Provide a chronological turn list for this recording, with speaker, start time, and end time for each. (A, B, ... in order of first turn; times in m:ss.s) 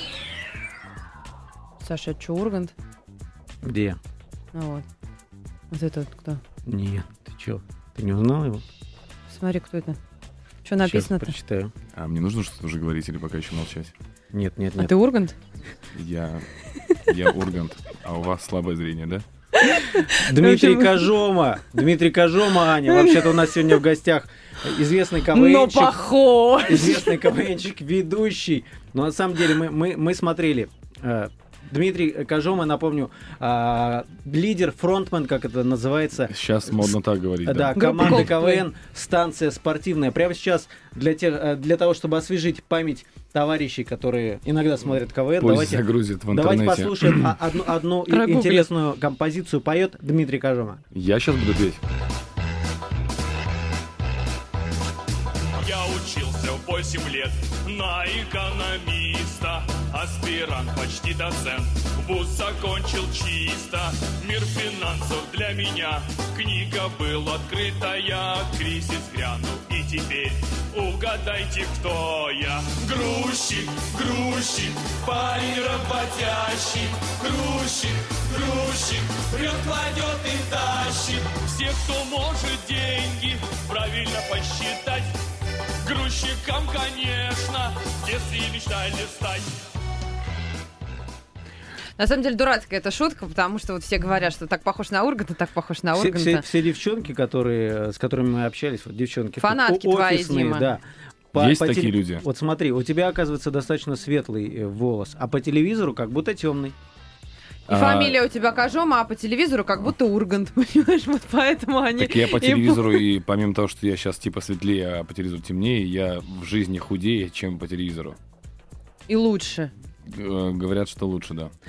0:01.8-0:02.7 A
0:03.6-0:04.0 B
0:04.5-0:04.8 A
0:05.7-0:06.4 A
0:06.7-0:08.6 B
0:09.3-0:10.0 A
0:10.6-0:11.3 A
0:10.8-0:11.7 B
0:11.9-0:13.9 C
0:14.3-0:14.9 B
0:14.8-0:15.4 A
0:16.0-0:19.2 C
0:19.5-0:21.1 A
0:20.1-0:26.0 B
0:22.8-0:23.8 A
0:25.3-0:27.3 A
0:26.6-0:36.9 B
0:36.3-0:37.8 C
0:37.4-0:50.8 B
0:37.8-0:38.6 A
0:45.4-0:47.4 C
0:48.1-0:48.7 A
0:50.9-0:51.8 C
0:55.6-1:25.1 D
1:25.8-1:29.5 D
1:32.0-1:36.4 A
1:36.0-1:46.8 B
1:39.4-1:40.7 A
1:41.3-1:42.2 C
1:47.7-1:48.2 C
1:47.7-1:53.0 A
1:52.0-1:58.2 C
1:59.1-1:59.7 A
2:00.1-2:01.5 C